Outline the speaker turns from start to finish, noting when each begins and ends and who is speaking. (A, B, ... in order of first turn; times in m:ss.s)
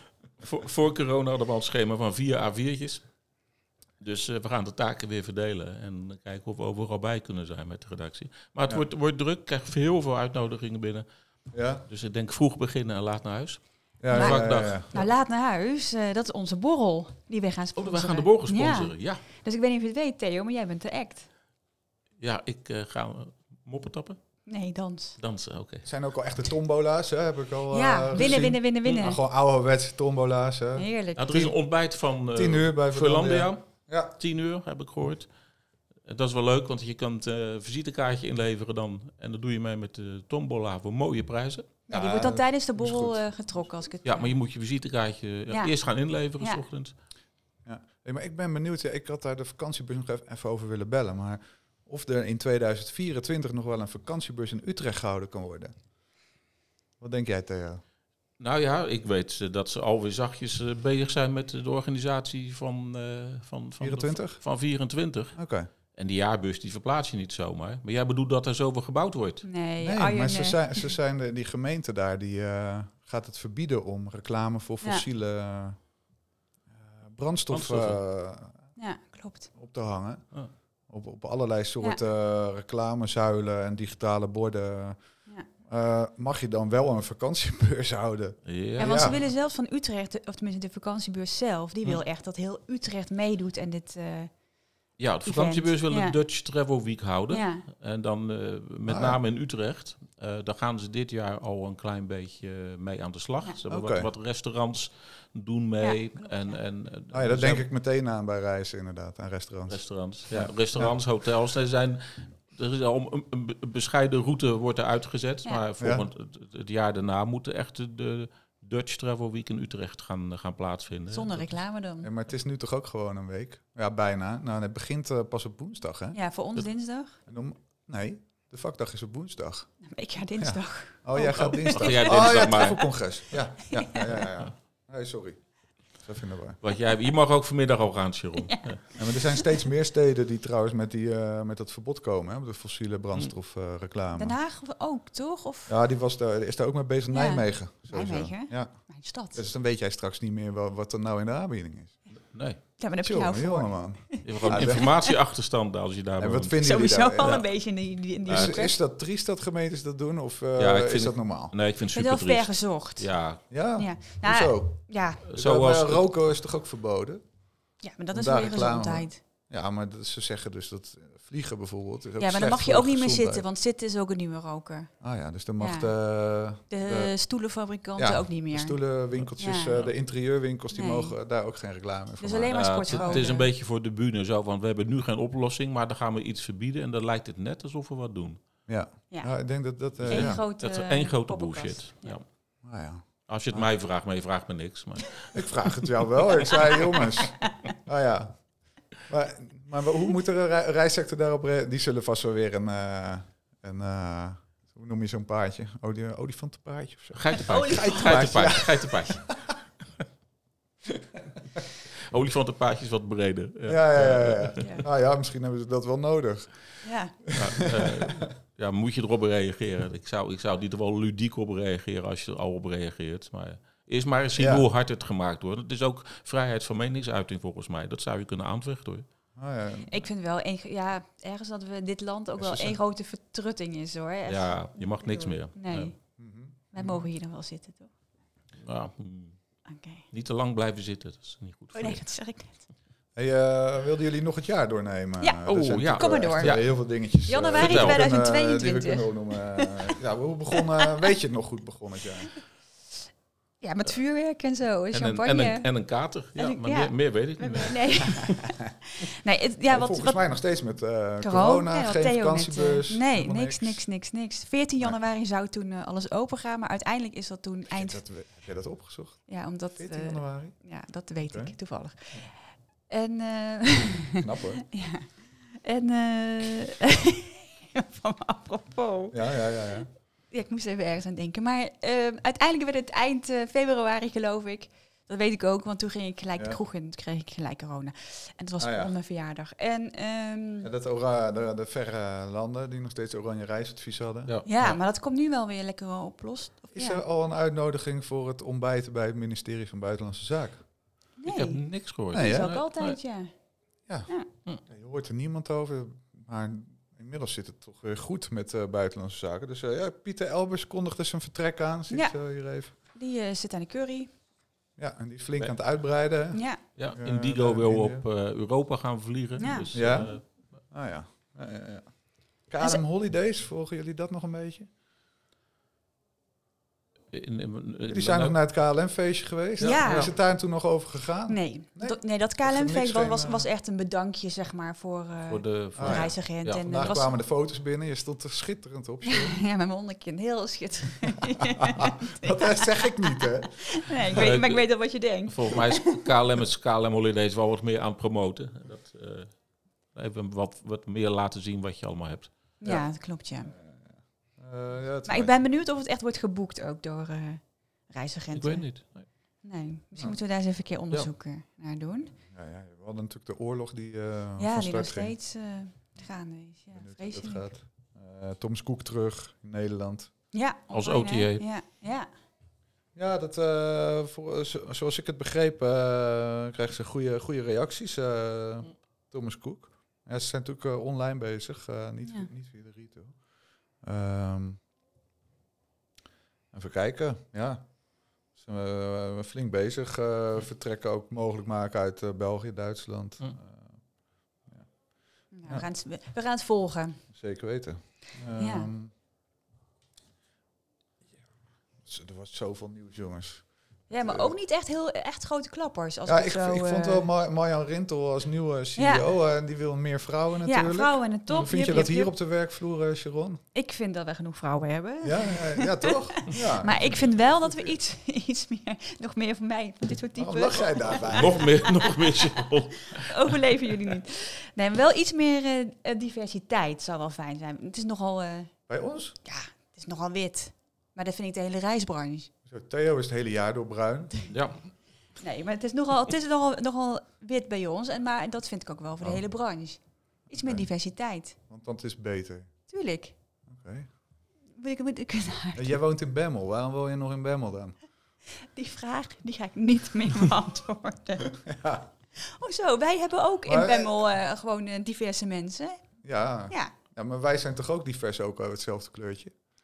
0:00.4-0:03.0 A
0:04.0-0:11.0 A
0:11.5-0:11.8 B
0:11.8-0:15.1 A
0:14.0-0:14.9 B
0:14.1-0:21.3 C
0:17.8-0:19.2 A
0:22.2-0:24.2 A
0:24.5-0:25.2 C
0:25.2-0:25.9 A
0:25.8-0:30.9 B
0:27.7-0:29.2 C
0:28.1-0:29.0 A
0:30.8-0:31.5 C
0:31.2-0:33.6 A
0:32.3-0:34.1 B
0:34.2-0:35.3 A
0:36.0-0:41.7 A
0:41.9-0:43.2 B
0:41.9-0:44.3 C
0:44.0-0:46.9 A
0:47.6-0:55.7 B
0:57.0-0:57.8 B
0:58.4-1:05.4 A
1:03.8-1:04.4 B
1:05.4-1:05.7 B
1:05.9-1:09.4 A
1:09.4-1:10.9 C
1:09.8-1:15.8 B
1:16.8-1:18.6 B
1:17.5-1:18.0 A
1:18.8-1:19.5 C
1:19.6-1:20.2 B
1:20.9-1:25.0 B
1:25.6-1:29.1 B
1:28.4-1:29.2 A
1:28.8-1:34.3 C
1:35.0-1:47.6 A
1:35.2-1:36.2 C
1:37.3-1:37.6 C
1:38.9-1:39.2 B
1:43.7-1:44.1 B
1:45.8-1:46.6 C
1:47.1-1:49.8 B
1:49.7-2:01.5 A
1:50.3-1:50.9 B
1:55.8-1:56.1 B
2:01.1-2:02.1 C
2:02.0-2:06.2 B
2:06.1-2:07.2 C
2:07.3-2:09.7 B
2:09.8-2:12.7 C
2:10.4-2:15.4 B
2:11.5-2:12.9 A
2:13.7-2:14.2 C
2:16.0-2:16.6 B
2:16.6-2:18.8 A
2:18.4-2:19.6 C
2:19.0-2:24.4 B
2:24.2-2:25.7 C
2:25.7-2:28.8 B
2:27.1-2:29.4 C
2:29.3-2:32.0 B
2:32.3-2:32.6 A
2:32.8-2:35.1 C
2:33.0-2:34.9 B
2:34.2-2:36.7 A
2:36.2-2:37.4 B
2:36.6-2:38.8 C
2:38.2-2:41.5 B
2:38.3-2:38.6 A
2:40.6-2:43.4 A
2:41.9-2:43.1 C
2:43.5-2:47.3 B
2:43.8-2:45.2 C
2:45.3-2:46.0 A
2:47.8-2:49.2 C
2:48.1-2:53.4 B
2:52.2-2:54.9 C
2:55.0-2:57.1 B
2:55.6-2:55.9 C
2:56.7-2:58.8 C
2:58.0-3:03.2 B
2:59.2-2:59.9 A
2:59.4-2:59.8 C
3:00.7-3:01.1 C
3:02.2-3:03.5 C
3:02.5-3:08.4 A
3:08.7-3:10.4 B
3:10.0-3:12.2 A
3:10.1-3:12.2 C
3:12.6-3:13.7 B
3:13.3-3:15.9 A
3:15.3-3:18.4 B
3:16.5-3:17.0 C
3:19.0-3:29.4 B
3:27.1-3:29.2 A
3:27.4-3:28.2 C
3:32.1-3:34.8 A
3:33.7-3:36.7 B
3:36.8-3:37.2 C
3:37.3-3:38.2 B
3:37.3-3:49.0 A
3:44.4-3:44.6 B
3:49.4-3:50.0 B
3:49.8-3:56.0 C
3:52.4-3:52.8 B
3:54.2-3:55.9 A
3:56.2-3:57.0 B
3:56.7-3:57.9 C
3:58.6-3:59.4 A
3:59.7-4:00.0 C
4:00.1-4:02.0 A
4:01.7-4:02.6 C
4:03.2-4:12.3 B
4:05.2-4:06.7 C
4:05.4-4:06.6 A
4:07.2-4:09.8 C
4:07.6-4:08.0 A
4:13.6-4:15.7 C
4:14.9-4:18.4 A
4:16.4-4:20.2 C
4:19.7-4:23.9 B
4:21.2-4:28.0 C
4:27.7-4:30.6 B
4:29.3-4:32.4 C
4:31.3-4:31.5 B
4:32.9-4:39.7 C
4:34.2-4:34.6 B
4:39.1-4:39.9 B
4:40.3-4:50.7 C
4:48.6-4:48.9 B
4:50.6-4:54.3 B
4:54.2-4:54.8 A
4:54.4-4:57.0 C
4:56.7-5:00.6 B
5:01.2-5:01.6 C
5:01.2-5:03.0 A
5:02.1-5:02.5 B
5:02.1-5:03.3 C
5:04.7-5:12.7 B
5:11.9-5:12.2 C
5:12.8-5:14.1 C
5:14.8-5:18.0 B
5:16.3-5:16.6 C
5:16.8-5:20.2 A
5:19.4-5:19.7 C
5:19.7-5:24.7 B
5:27.1-5:28.4 A
5:27.9-5:33.5 B
5:29.6-5:30.1 A
5:29.6-5:30.1 C
5:31.3-5:37.2 C
5:35.3-5:36.9 A
5:35.8-5:39.4 B
5:39.0-5:46.0 C
5:41.6-5:43.8 B
5:44.1-5:49.3 A
5:49.9-5:52.3 A
5:52.6-5:53.5 C
5:53.5-5:55.4 B
5:55.1-5:58.7 C
5:58.3-5:59.1 A
5:59.4-6:02.1 C
6:02.3-6:05.1 B
6:04.4-6:07.5 C
6:06.7-6:10.1 B
6:10.3-6:12.1 C
6:10.7-6:11.4 A
6:12.9-6:23.2 B
6:23.8-6:24.6 B
6:26.5-6:27.8 B
6:28.3-6:33.8 B
6:34.4-6:34.7 B
6:35.3-6:37.0 C
6:37.1-6:38.9 B
6:38.4-6:38.7 C
6:41.8-6:44.3 B
6:43.9-6:47.1 C
6:46.0-6:53.4 B
6:48.8-6:49.0 C
6:50.4-6:52.1 C
6:51.3-6:51.8 A
6:53.5-7:08.5 C
6:55.0-6:57.7 B
7:00.2-7:01.5 B
7:01.1-7:03.4 A
7:08.7-7:09.2 B
7:09.2-7:12.3 C
7:12.5-7:14.1 B
7:14.3-7:14.6 A
7:15.2-7:21.4 C
7:20.3-7:20.6 B
7:21.5-7:22.5 B
7:22.7-7:23.1 C
7:23.5-7:23.9 B
7:24.6-7:25.8 C
7:25.5-7:27.8 B
7:28.5-7:31.3 C
7:31.4-7:31.9 B
7:32.2-7:35.8 C
7:33.4-7:33.9 B
7:36.0-7:39.3 B